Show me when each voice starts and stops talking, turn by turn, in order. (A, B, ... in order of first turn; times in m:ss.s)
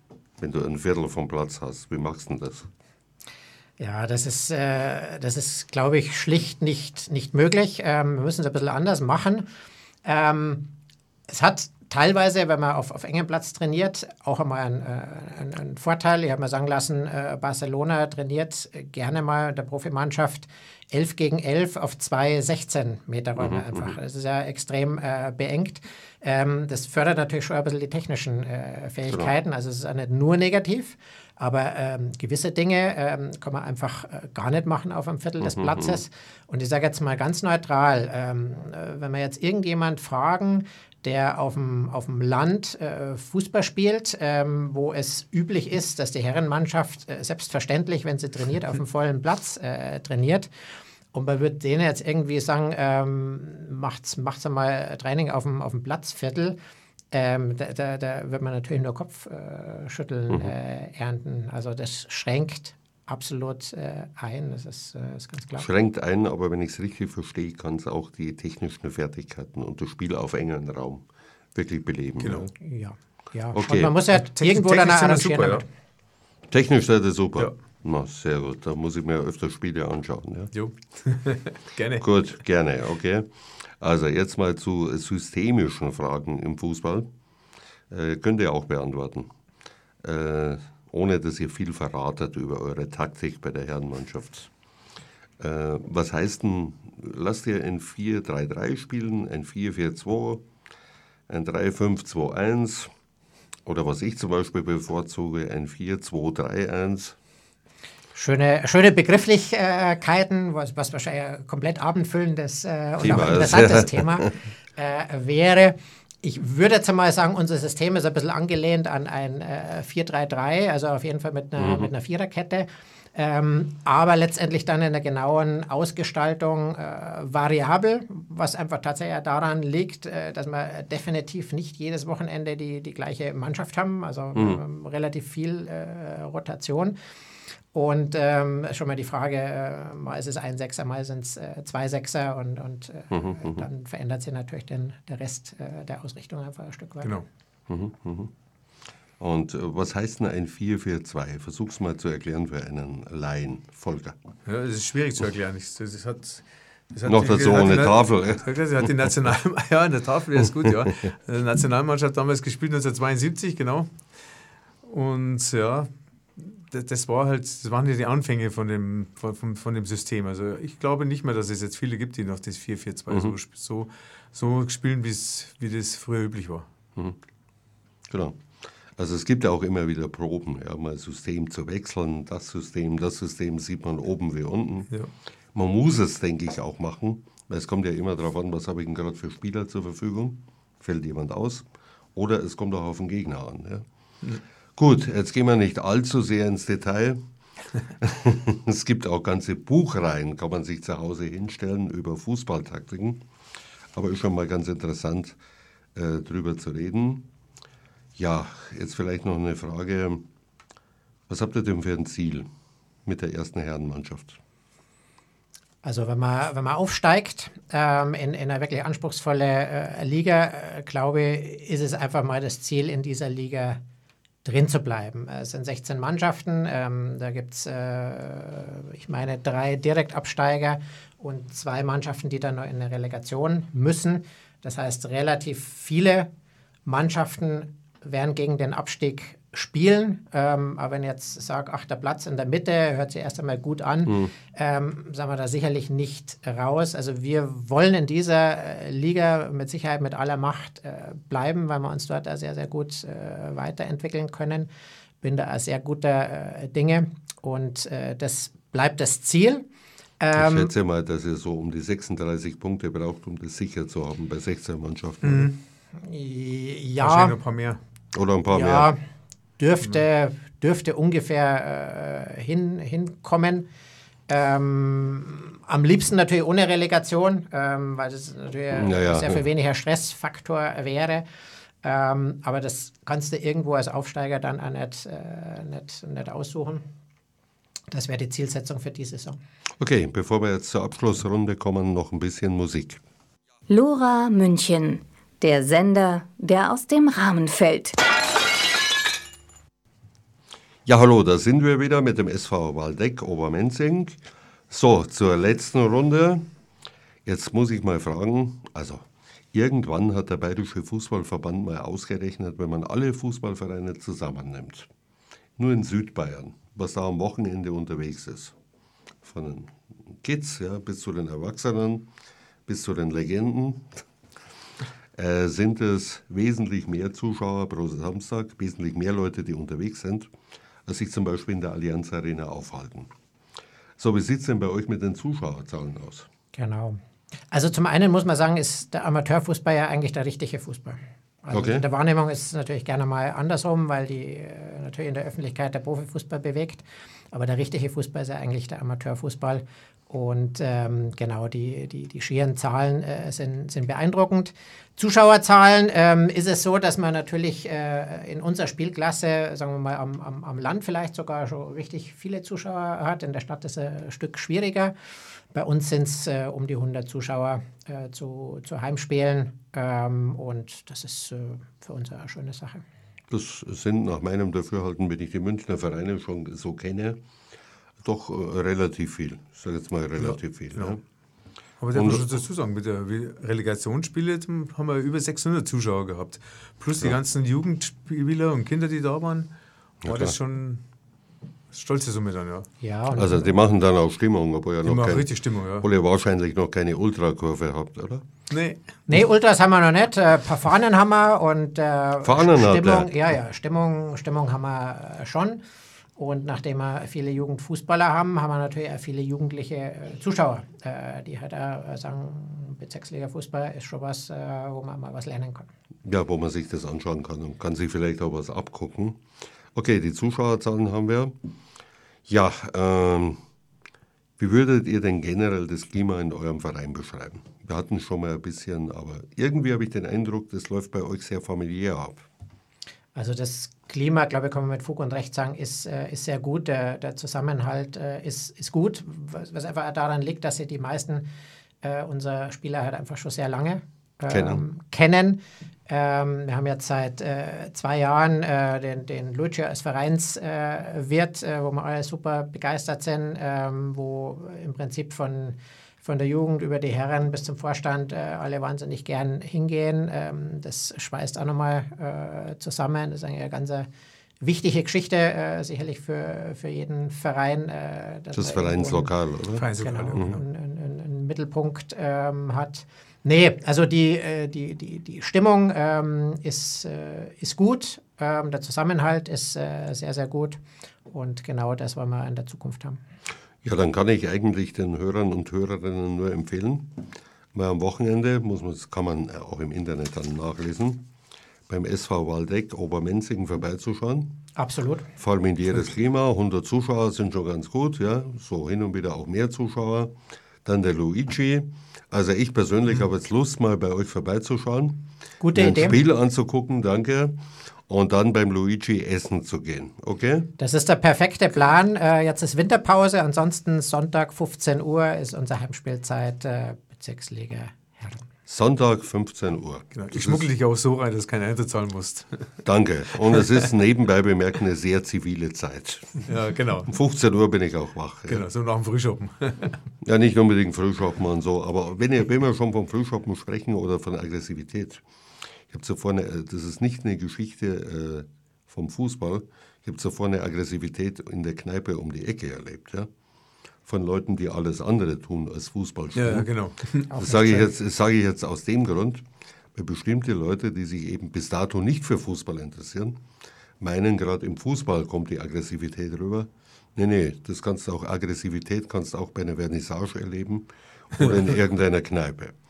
0:00.4-0:02.7 A
0:03.8-0:09.5 B
0:10.0-0:10.7 B
0:11.3-0:50.5 B
0:23.4-0:24.0 A
0:35.4-0:36.0 A
0:51.1-0:56.6 B
0:57.1-1:05.7 B
1:05.6-1:12.5 A
1:12.2-1:12.5 C
1:12.6-1:15.7 B
1:13.6-1:14.0 A
1:14.2-1:15.6 C
1:16.5-1:20.5 A
1:20.5-1:22.0 C
1:22.0-1:27.1 A
1:27.9-1:29.3 A
1:30.0-1:34.5 A
1:35.4-1:40.4 A
1:41.3-1:42.9 A
1:43.7-1:47.2 A
1:48.1-2:17.0 B
1:53.0-1:54.3 A
2:01.6-2:01.9 A
2:14.4-2:14.6 A
2:17.7-2:27.1 B
2:23.1-2:23.6 A
2:27.7-2:28.3 A
2:29.2-2:34.2 A
2:34.4-2:44.0 C
2:37.1-2:38.9 A
2:40.6-2:41.0 A
2:44.8-2:56.7 C
2:58.1-2:58.4 A
2:59.0-3:04.9 A
3:05.5-3:13.9 A
3:14.8-3:17.2 A
3:18.0-3:23.2 A
3:23.9-3:25.4 A
3:26.0-3:27.3 A
3:28.2-3:30.2 A
3:31.3-3:32.5 A
3:33.1-3:34.4 A
3:35.8-3:43.8 B
3:44.4-3:56.3 B
3:56.9-4:14.7 B
4:04.1-4:04.3 A
4:15.2-4:19.6 B
4:20.2-4:20.7 B
4:20.4-4:25.5 A
4:25.2-4:25.6 C
4:26.0-4:27.4 B
4:27.0-4:27.8 C
4:28.1-4:28.9 A
4:28.5-4:29.0 B
4:29.6-4:33.7 B
4:34.3-4:41.2 B
4:38.7-4:39.4 A
4:41.8-4:46.8 B
4:47.9-4:49.4 B
4:49.8-4:53.0 A
4:53.7-4:58.0 D
5:00.9-5:04.2 A
5:04.7-5:06.4 A
5:07.2-5:14.9 A
5:15.6-5:18.6 A
5:19.2-5:22.1 A
5:22.7-5:24.0 A
5:25.2-5:30.3 A
5:30.9-5:33.1 A
5:34.0-5:36.3 A
5:36.6-5:37.0 B
5:37.5-6:04.9 B
5:41.5-5:41.9 A
6:05.5-6:12.8 B
6:13.3-6:17.2 A
6:18.0-6:21.0 A
6:20.2-6:21.0 C
6:21.8-6:29.5 C
6:21.9-6:22.3 A
6:30.0-6:30.4 A
6:30.0-6:30.8 C
6:31.7-6:32.7 C
6:32.8-6:33.4 B
6:33.1-6:38.2 A
6:34.8-6:35.9 C
6:38.5-6:38.8 C
6:39.1-6:45.6 B
6:42.2-6:43.1 A
6:46.2-6:55.7 B
6:56.0-6:59.2 A
6:59.7-7:01.4 A
7:02.3-7:03.4 A
7:04.4-7:12.3 A
7:13.1-7:21.2 B
7:21.8-7:43.9 B
7:24.3-7:24.6 A
7:44.4-7:49.1 B
7:48.4-7:50.4 A
7:49.6-7:50.4 C
7:49.8-8:03.0 B
8:03.6-8:11.1 A
8:11.7-8:14.4 A
8:14.6-8:15.1 B
8:15.2-8:30.5 A
8:25.4-8:26.0 B
8:30.6-8:38.3 B
8:38.5-8:40.5 A
8:39.9-8:42.6 C
8:42.6-8:46.3 A
8:43.3-8:43.6 C
8:46.3-8:46.9 C
8:46.9-8:48.4 A
8:48.3-8:49.8 C
8:50.0-8:55.0 A
8:55.7-9:03.1 A
9:03.8-9:06.5 A
9:06.1-9:07.1 C
9:07.1-9:13.2 A
9:07.1-9:07.7 B
9:13.8-9:22.6 A